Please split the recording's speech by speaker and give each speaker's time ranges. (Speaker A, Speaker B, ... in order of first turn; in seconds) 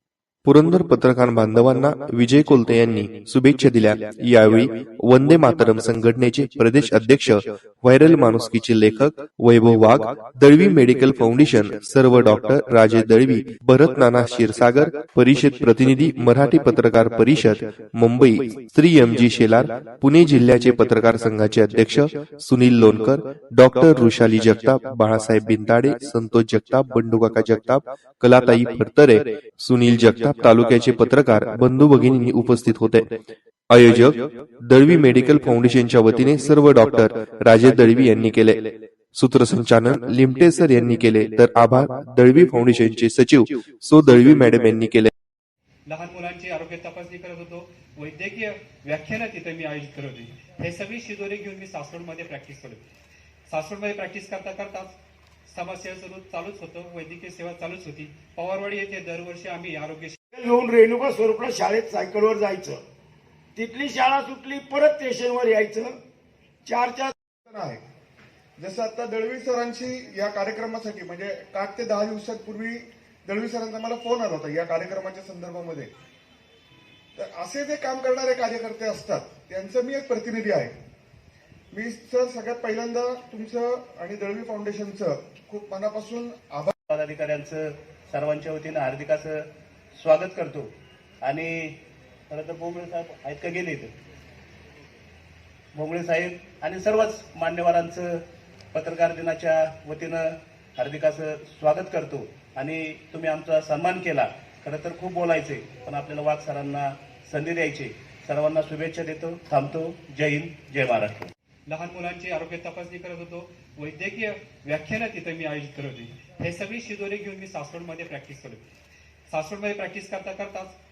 Speaker A: 0.4-33.1, 33.7-45.1
Speaker B: 45.9-52.8, 53.5-54.9, 55.5-60.2, 111.7-118.6, 119.3-120.8
Speaker C: 60.3-62.8, 63.5-66.0, 66.7-67.1
Speaker D: 67.5-67.8, 68.6-75.9, 77.2-80.7, 81.7-86.7
Speaker E: 86.9-90.7, 91.2-91.8, 92.3-93.9, 95.7-98.2, 98.7-111.3